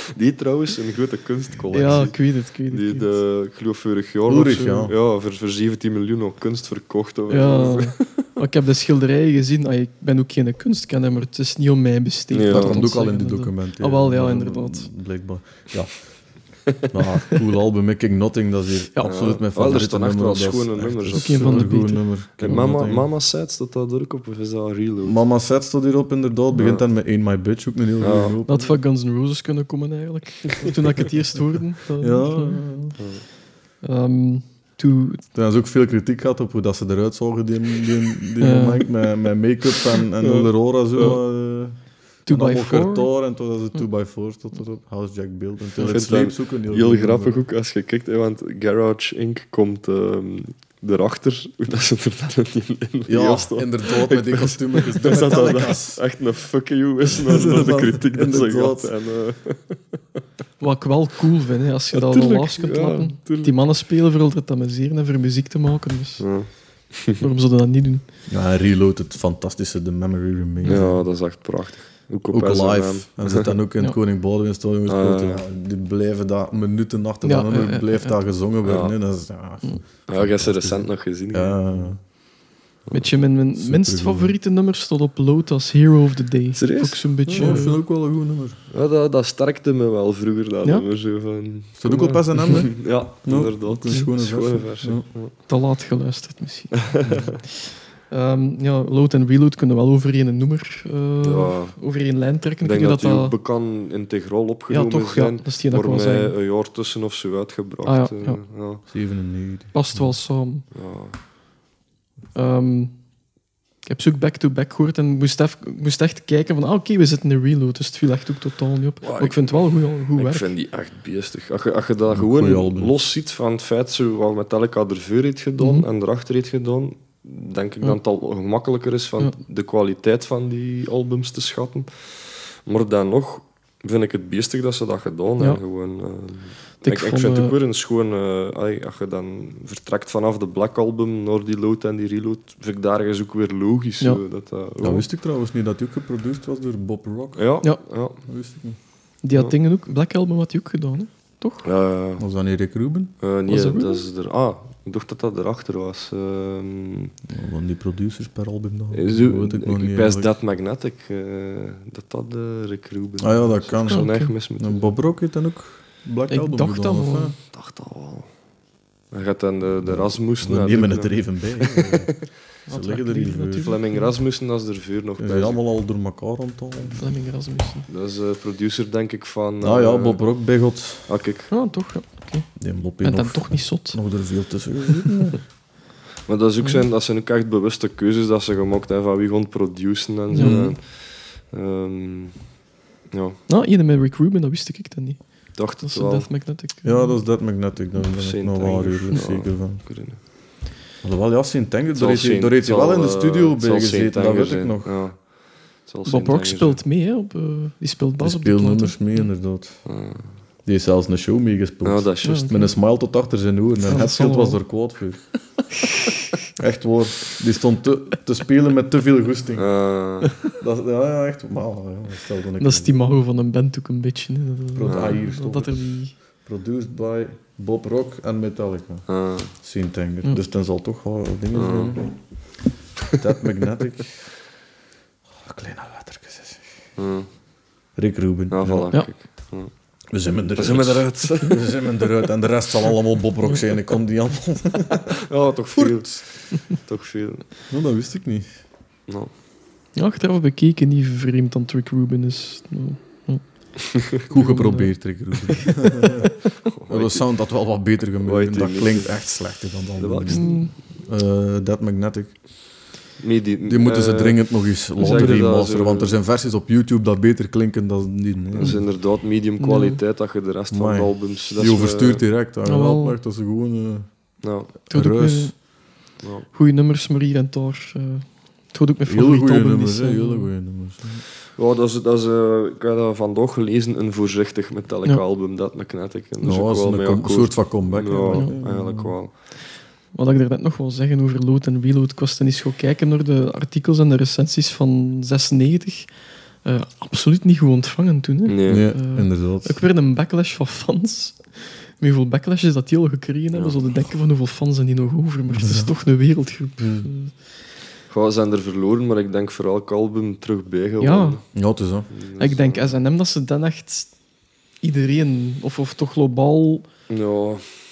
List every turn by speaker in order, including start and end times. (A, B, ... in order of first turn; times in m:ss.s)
0:00.1-0:08.2 A
0:01.7-0:03.1 B
0:04.3-0:04.9 C
0:07.3-0:14.9 B
0:12.3-0:12.9 A
0:12.5-0:23.1 C
0:18.9-0:19.2 B
0:19.0-0:21.7 A
0:21.1-0:22.6 B
0:22.4-0:25.2 A
0:25.0-0:28.7 C
0:26.5-0:26.8 A
0:28.0-0:28.4 A
0:28.5-0:32.6 B
0:32.0-0:33.0 C
0:33.0-0:33.2 A
0:33.8-0:35.2 B
0:35.3-0:47.4 C
0:38.4-0:38.9 B
0:40.2-0:41.2 A
0:42.2-0:43.1 B
0:45.8-0:59.8 A
0:53.1-0:56.0 C
0:57.1-0:58.9 C
1:00.6-1:06.7 B
1:01.9-1:03.6 A
1:06.2-1:07.2 A
1:07.2-1:08.0 B
1:08.3-1:11.0 C
1:10.6-1:10.9 B
1:10.7-1:13.5 A
1:12.3-1:22.0 C
1:14.9-1:15.4 A
1:17.2-1:18.2 B
1:18.6-1:18.9 A
1:20.1-1:22.0 A
1:22.9-1:27.8 B
1:23.5-1:24.3 C
1:26.5-1:27.7 A
1:27.3-1:28.6 C
1:28.7-1:35.3 A
1:31.8-1:35.0 C
1:35.5-1:36.9 B
1:36.8-1:37.4 A
1:38.1-1:43.3 B
1:41.2-1:41.8 A
1:42.6-1:48.8 A
1:44.7-1:46.3 B
1:47.8-1:48.4 B
1:48.9-1:50.2 C
1:49.7-1:50.6 B
1:50.7-1:51.2 A
1:52.3-1:53.0 B
1:53.8-2:00.5 B
1:59.0-2:25.0 A
2:02.1-2:03.0 C
2:05.6-2:05.8 B
2:16.8-2:17.6 B
2:24.8-2:27.5 C
2:27.3-2:28.2 A
2:28.2-2:28.8 C
2:29.2-2:31.7 B
2:31.6-2:32.2 A
2:32.2-2:33.1 C
2:33.2-2:37.1 A
2:33.5-2:34.1 B
2:37.3-2:40.3 C
2:38.9-2:45.0 A
2:43.2-2:47.4 C
2:43.9-2:44.3 B
2:46.3-2:47.3 B
2:47.5-2:48.3 A
2:49.1-2:52.1 A
2:49.8-2:53.7 C
2:52.7-2:54.1 B
2:53.6-2:55.6 A
2:55.2-2:57.0 C
2:57.0-2:57.9 B
2:57.9-3:00.2 A
2:59.6-3:01.1 C
3:01.1-3:01.5 A
3:01.5-3:04.0 B
3:02.6-3:05.4 C
3:06.3-3:12.4 A
3:10.3-3:10.7 B
3:10.4-3:10.7 C
3:13.1-3:13.4 A
3:13.5-3:17.2 B
3:15.5-3:16.5 A
3:16.8-3:19.8 C
3:17.9-3:20.2 A
3:21.0-3:24.9 C
3:21.9-3:26.8 A
3:26.0-3:29.3 B
3:28.2-3:29.8 C
3:29.8-3:30.3 A
3:30.6-3:35.2 C
3:31.8-3:32.7 A
3:32.2-3:32.5 B
3:33.8-3:34.6 B
3:36.6-3:39.7 C
3:39.6-3:40.4 A
3:40.5-3:43.0 C
3:42.6-3:46.2 B
3:44.7-3:52.1 C
3:44.8-3:45.2 A
3:49.1-3:49.5 A
3:51.5-3:52.0 A
3:53.1-3:54.3 C
3:55.4-3:56.6 C
3:57.0-3:57.3 A
3:58.0-3:58.9 C
3:58.5-3:59.7 A
4:00.1-4:05.2 C
4:00.5-4:02.2 A
4:05.3-4:07.4 A
4:05.7-4:06.2 C
4:07.7-4:08.5 C
4:10.0-4:15.0 B
4:14.3-4:16.3 C
4:15.5-4:16.2 B
4:16.7-4:17.3 A
4:16.9-4:22.4 C
4:18.2-4:19.3 A
4:20.0-4:20.7 A
4:20.3-4:20.7 B
4:23.2-4:26.2 A
4:23.6-4:28.8 C
4:25.0-4:25.4 B
4:28.5-4:32.2 A
4:28.6-4:28.9 B
4:29.6-4:30.0 B
4:30.7-4:34.1 C
4:32.6-4:33.2 B
4:34.4-4:34.7 A
4:34.8-4:35.5 C
4:34.9-4:35.9 B
4:36.2-4:36.5 A
4:36.5-4:40.5 B
4:39.1-4:41.2 C
4:41.6-4:49.3 A
4:46.4-4:49.1 C
4:48.2-4:48.6 B
4:50.1-5:07.3 B
4:58.5-4:58.9 A
4:58.6-4:59.8 C
5:05.5-5:05.9 C
5:06.8-5:07.1 C
5:08.1-5:11.4 A
5:11.0-5:11.4 B
5:11.5-5:12.1 C
5:12.1-5:13.0 A
5:12.4-5:14.1 B
5:14.8-5:16.9 B
5:17.1-5:17.7 A